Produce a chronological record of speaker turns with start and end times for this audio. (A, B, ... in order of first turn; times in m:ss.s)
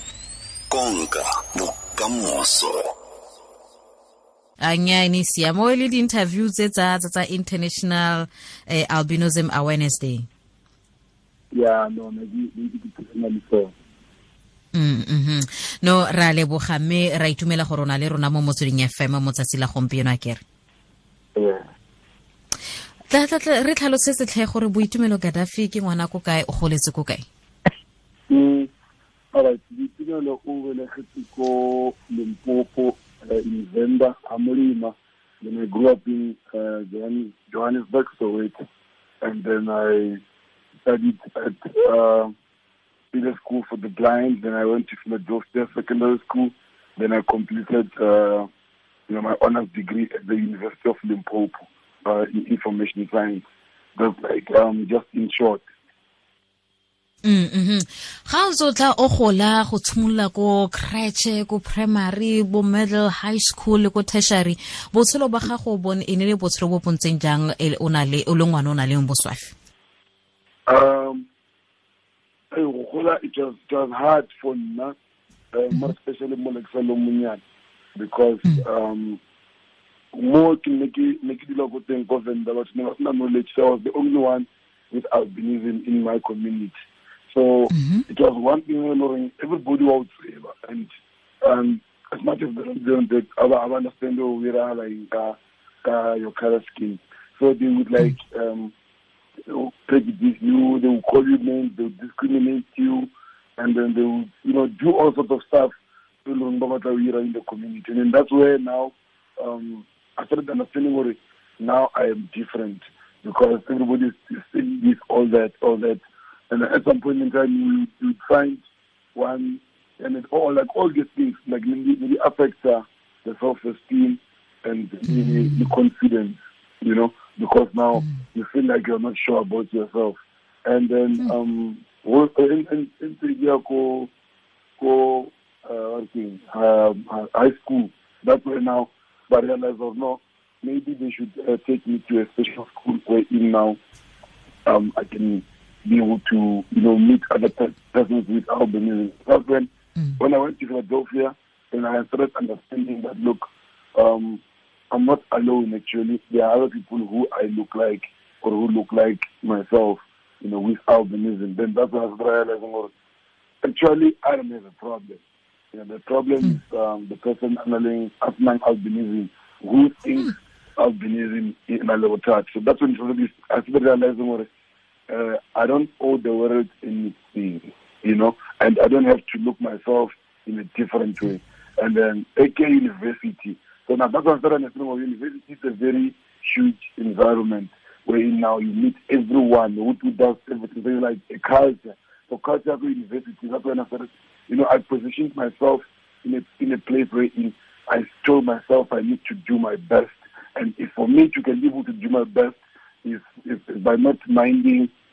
0:00.7-0:02.9 A
0:04.6-0:10.3 B
0:11.5-0:13.7 C
0:14.7-0:20.4 B
0:21.3-0:21.7 C
0:23.1-0:27.2 B
0:28.3-0:28.7 C
0:29.3-0:38.5 C
0:39.2-0:40.2 C
0:40.8-0:42.3 C
0:43.1-0:48.5 C
0:49.1-0:53.4 C
0:54.0-0:55.6 C
0:57.2-1:09.5 B
1:10.7-1:11.2 C
1:12.5-1:14.9 C
1:15.5-1:17.4 C
1:17.9-1:19.2 C
1:20.1-1:30.9 C
1:27.7-1:28.0 B
1:31.4-1:38.7 C
1:39.5-1:45.7 C
1:46.2-1:58.6 C
1:59.1-2:14.1 C
2:05.1-2:05.7 B
2:14.8-2:23.8 C
2:24.6-2:42.9 C
2:43.6-2:45.2 C
2:45.7-2:54.5 C
2:55.1-3:24.9 C